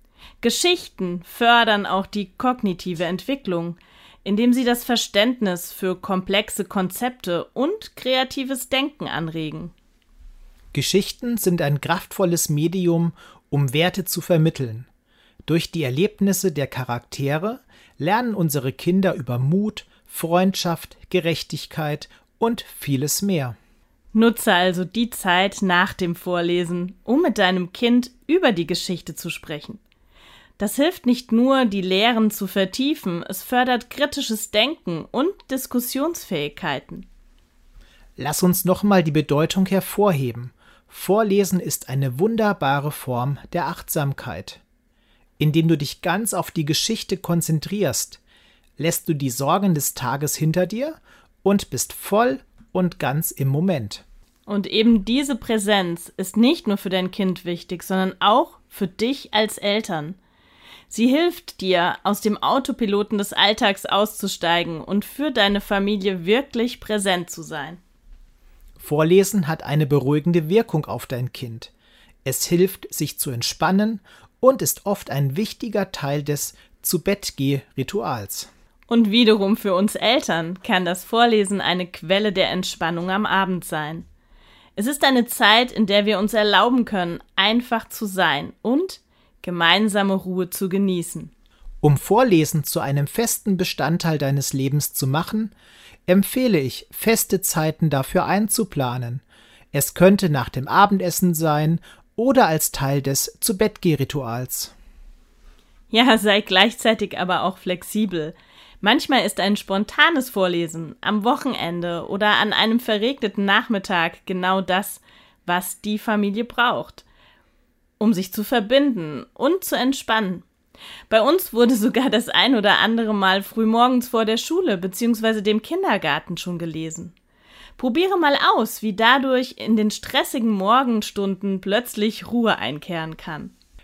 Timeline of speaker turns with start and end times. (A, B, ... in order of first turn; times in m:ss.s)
0:00.4-0:09.7 A
0:10.7-0:14.9 B
0:15.4-0:23.6 B
0:24.1-0:29.8 A
0:30.6-0:37.1 A
0:38.2-0:44.6 B
0:45.4-0:48.2 B
0:48.8-0:54.0 B
0:54.5-1:00.2 A
1:00.9-1:07.8 A
1:08.8-1:11.7 B
1:12.2-1:18.5 B
1:18.9-1:24.0 A
1:24.8-1:31.3 A
1:31.8-1:35.5 B
1:36.1-1:44.7 B
1:45.9-1:57.0 A
1:58.0-2:00.4 A
2:01.1-2:07.1 A
2:07.8-2:13.5 A